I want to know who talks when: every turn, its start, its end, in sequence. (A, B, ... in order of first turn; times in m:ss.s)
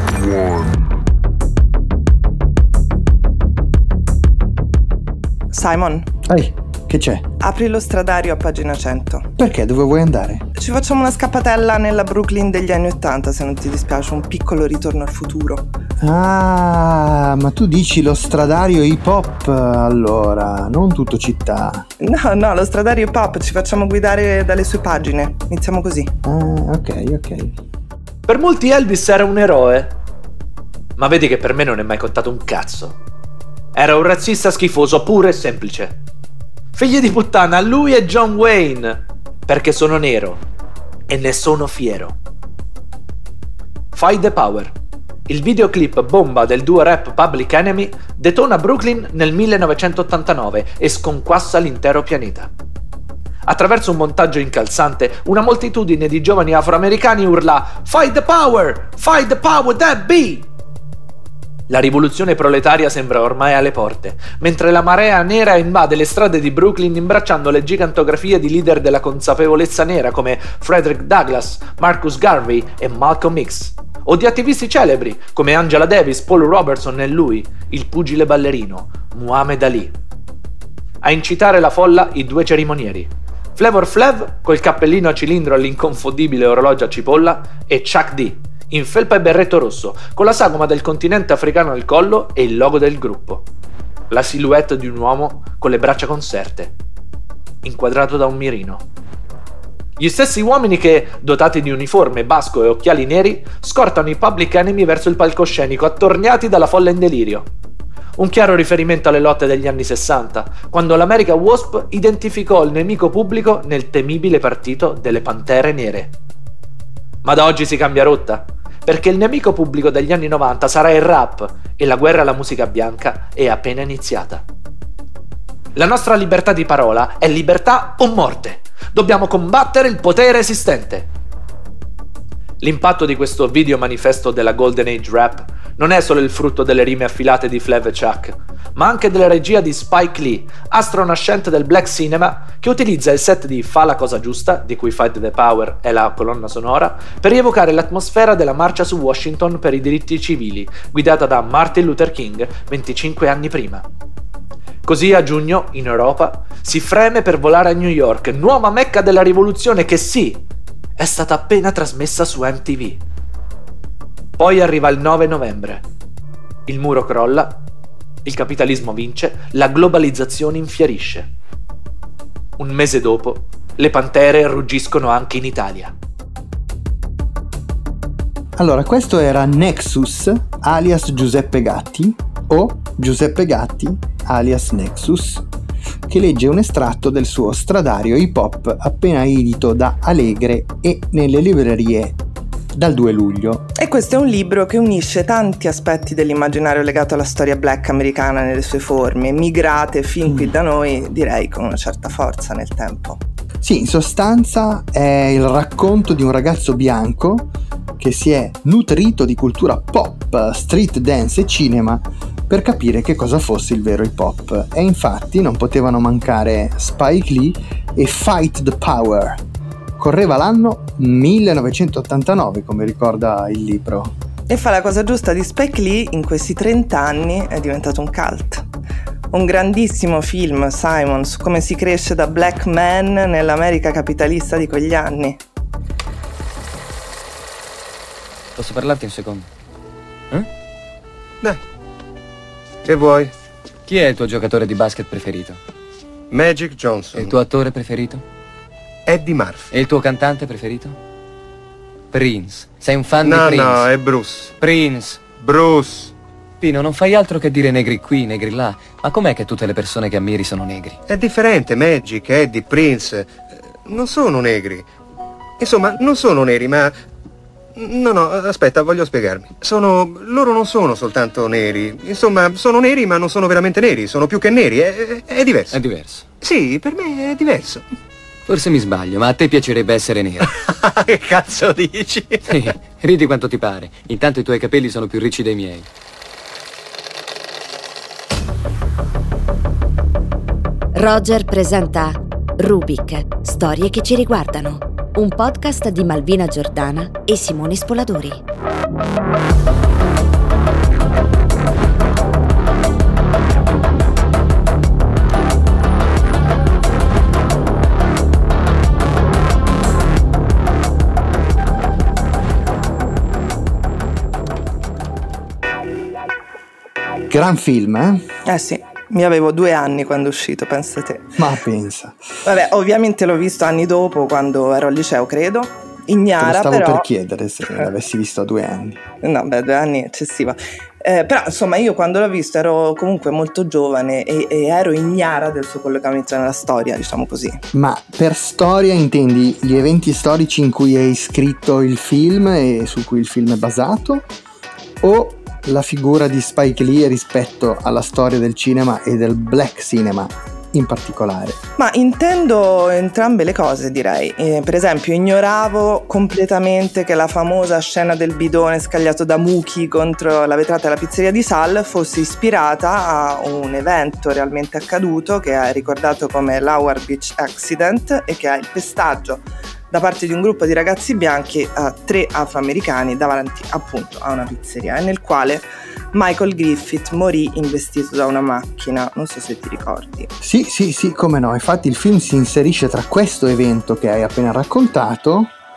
0:05.5-0:06.1 A
0:06.3-0:07.2 B
0:07.4-0:09.3 A
0:09.4-0:10.4 B
0:10.5-0:15.6 A
0:16.0-0:21.9 B
0:22.0-0:26.1 A
0:26.2-0:27.6 B
0:28.3-0:29.9 C
0:31.0-0:33.0 C
0:33.7-0:35.9 C
0:36.7-0:40.4 C
0:41.1-0:42.1 C
0:43.9-0:44.7 C
0:45.3-0:52.5 C
0:53.4-1:00.4 C
1:01.7-1:19.9 C
1:21.0-1:33.4 C
1:34.1-1:36.7 C
1:37.6-1:38.8 C
1:40.0-1:47.5 C
1:48.2-1:56.1 C
1:57.2-2:04.4 C
2:05.7-2:11.1 C
2:12.6-2:33.8 C
2:34.8-2:40.4 C
2:41.0-2:43.0 C
2:44.4-2:45.8 C
2:46.7-2:47.6 C
2:48.2-2:51.3 C
2:52.6-2:55.9 C
2:58.6-3:05.4 B
3:06.1-3:12.2 B
3:12.7-3:13.7 B
3:13.8-3:23.2 A
3:23.6-3:39.4 B
3:40.0-3:44.1 B
3:44.5-3:48.6 A
3:49.3-3:55.4 A
3:58.6-3:59.5 D
4:02.8-4:03.3 E
4:03.8-4:05.6 D
4:06.3-4:07.4 E
4:07.1-4:08.2 D
4:09.0-4:09.7 E
4:09.7-4:11.0 D
4:12.1-4:13.9 D
4:13.2-4:14.5 E
4:14.6-4:15.2 D
4:15.3-4:16.1 E
4:16.6-4:21.0 D
4:21.1-4:24.9 E
4:25.6-4:27.0 E
4:27.8-4:35.8 E
4:35.7-4:36.2 D
4:36.4-4:37.8 E
4:38.5-4:40.5 D
4:40.5-4:42.5 E
4:42.5-4:45.9 D
4:50.9-4:58.4 F
5:17.3-5:18.2 B
5:18.4-5:21.4 A
5:21.4-5:22.2 B
5:22.4-5:27.1 A
5:26.4-5:29.0 B
5:29.2-5:37.6 A
5:37.7-5:44.3 B
5:45.0-5:51.6 B
5:51.8-6:20.3 A
6:20.4-6:25.5 B